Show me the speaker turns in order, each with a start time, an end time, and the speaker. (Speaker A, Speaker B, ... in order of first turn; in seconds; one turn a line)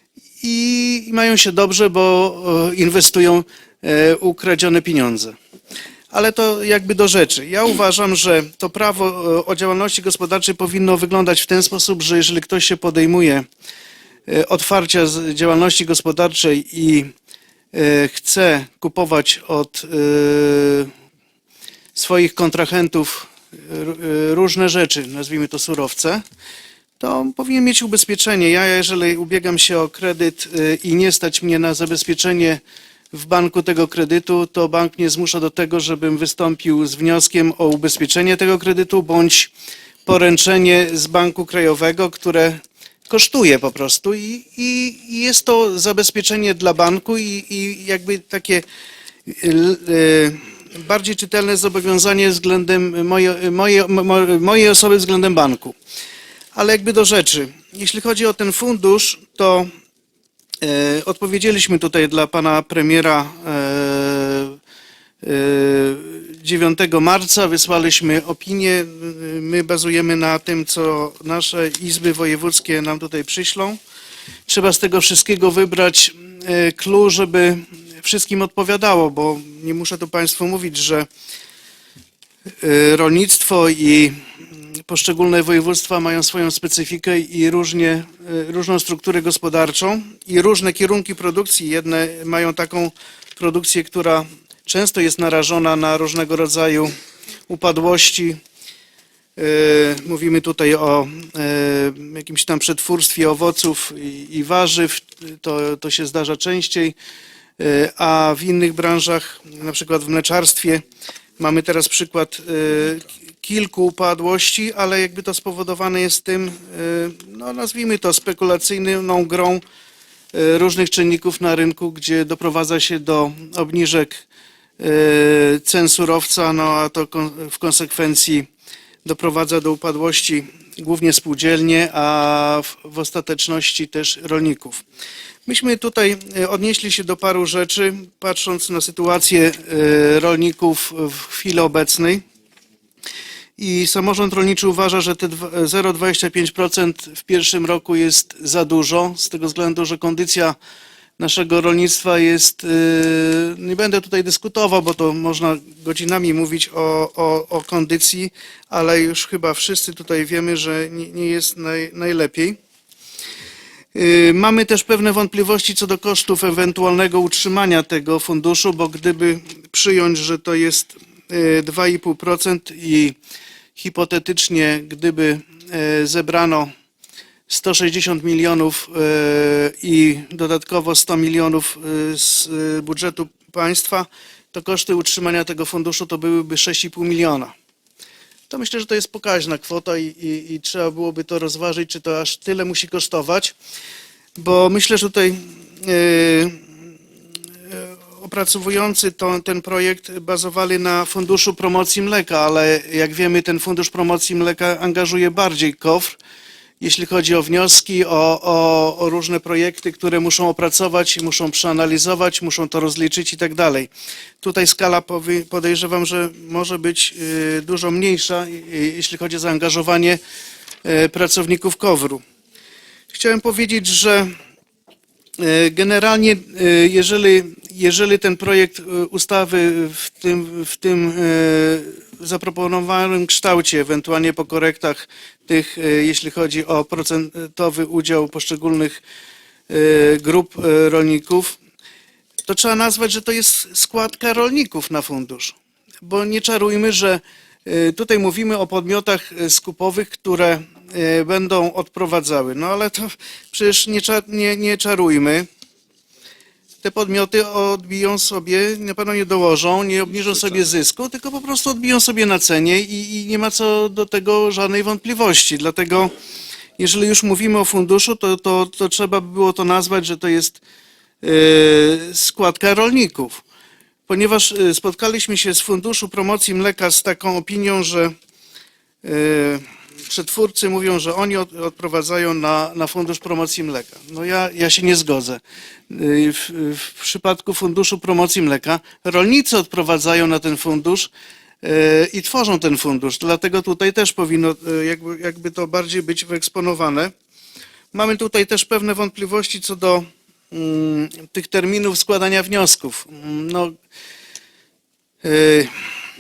Speaker A: 0.4-5.3
Speaker A: 6.1-13.4
Speaker A: 14.3-17.1
Speaker A: 17.7-20.9
Speaker A: 21.9-26.2
Speaker A: 27.0-32.6
Speaker A: 33.1-39.5
Speaker A: 40.0-48.6
Speaker A: 49.3-55.7
Speaker A: 56.5-59.7
Speaker A: 60.6-64.6
Speaker A: 65.2-73.8
Speaker A: 74.5-81.1
Speaker A: 82.6-84.1
Speaker A: 84.9-96.9
Speaker A: 97.5-98.4
Speaker A: 99.4-107.0
Speaker A: 107.6-110.8
Speaker A: 111.4-119.6
Speaker A: 120.3-124.2
Speaker A: 124.8-128.5
Speaker A: 129.0-134.8
Speaker A: 135.4-142.2
Speaker A: 143.6-150.6
Speaker A: 151.2-162.6
Speaker A: 163.9-173.2
Speaker A: 173.8-176.7
Speaker A: 177.5-187.5
Speaker A: 188.5-193.5
Speaker A: 194.4-196.6
Speaker A: 197.7-206.2
Speaker A: 206.8-220.2
Speaker A: 220.8-222.2
Speaker A: 223.1-224.3
Speaker A: 225.4-239.0
Speaker A: 239.7-241.6
Speaker A: 242.4-255.5
Speaker A: 256.8-266.1
Speaker A: 266.8-270.6
Speaker A: 271.2-273.4
Speaker A: 274.1-278.1
Speaker A: 279.0-291.1
Speaker A: 291.6-297.1
Speaker A: 297.9-303.7
Speaker A: 305.2-305.7